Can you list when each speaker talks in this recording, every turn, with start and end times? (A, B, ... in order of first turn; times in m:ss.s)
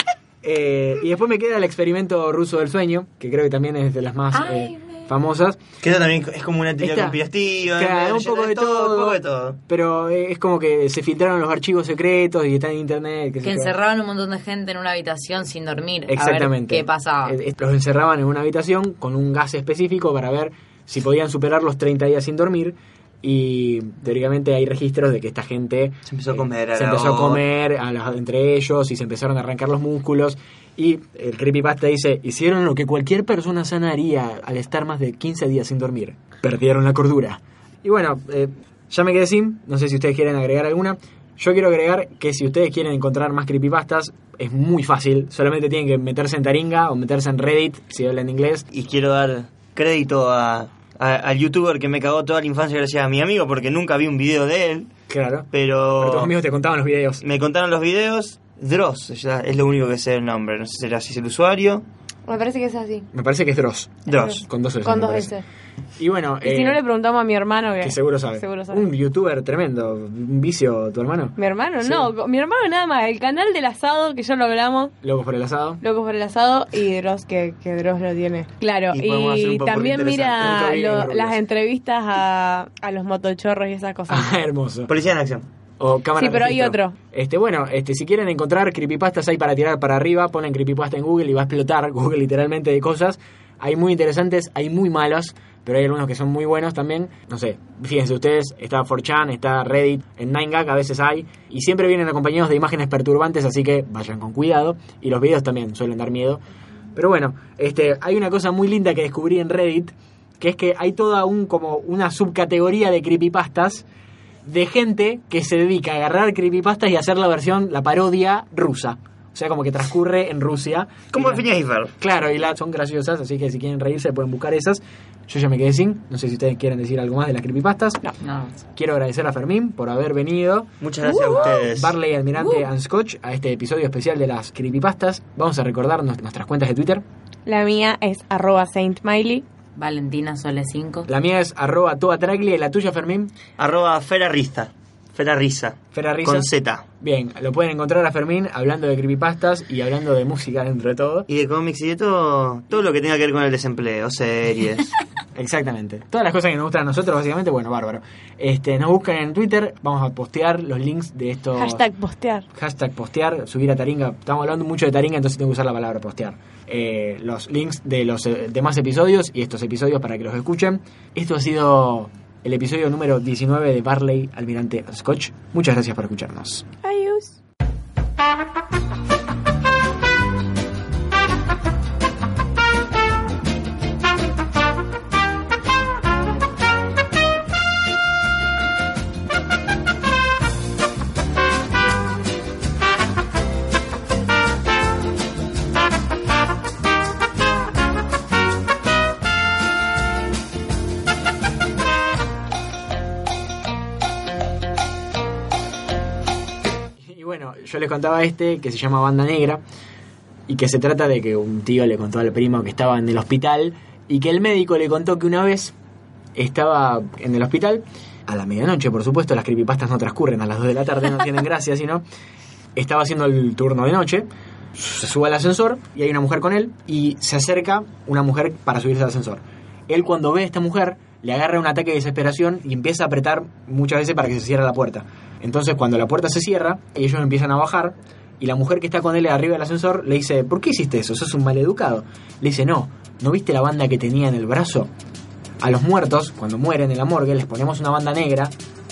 0:00.4-0:05.6 A
0:04.3-0:05.1 B
0:05.8-0:09.6 C
0:06.8-0:13.7 A
0:13.4-0:17.4 B
0:16.1-0:48.6 A
0:26.1-0:27.4 C
0:48.7-0:54.9 C
0:55.1-0:57.2 A
0:55.5-0:56.3 C
0:57.2-1:01.8 C
1:02.3-1:03.1 D
1:03.1-1:05.3 A
1:04.0-1:04.4 C
1:04.8-1:05.4 D
1:06.0-1:06.8 A
1:06.4-1:08.8 D
1:07.8-1:12.1 A
1:11.4-1:14.9 D
1:15.0-1:15.8 A
1:15.8-1:24.3 D
1:18.9-1:20.7 C
1:20.4-1:21.4 A
1:24.1-1:24.9 A
1:24.9-1:25.5 C
1:25.8-1:46.4 A
1:26.2-1:26.9 D
1:46.9-1:53.8 A
1:54.4-2:01.4 A
2:01.1-2:01.9 C
2:02.0-2:08.0 A
2:08.2-2:08.6 B
2:08.7-2:17.0 A
2:10.8-2:11.9 C
2:17.4-2:19.4 D
2:19.8-2:21.1 B
2:21.0-2:23.3 A
2:23.6-2:26.8 C
2:25.9-2:26.5 A
2:27.0-2:31.3 A
2:31.3-2:34.9 C
2:35.3-2:41.9 A
2:41.6-2:42.4 D
2:42.5-2:56.6 A
2:56.8-2:57.4 D
3:27.0-3:29.6 A
3:30.5-3:35.7 A
3:36.4-3:42.0 A
3:42.8-4:04.9 A
4:05.6-4:08.5 A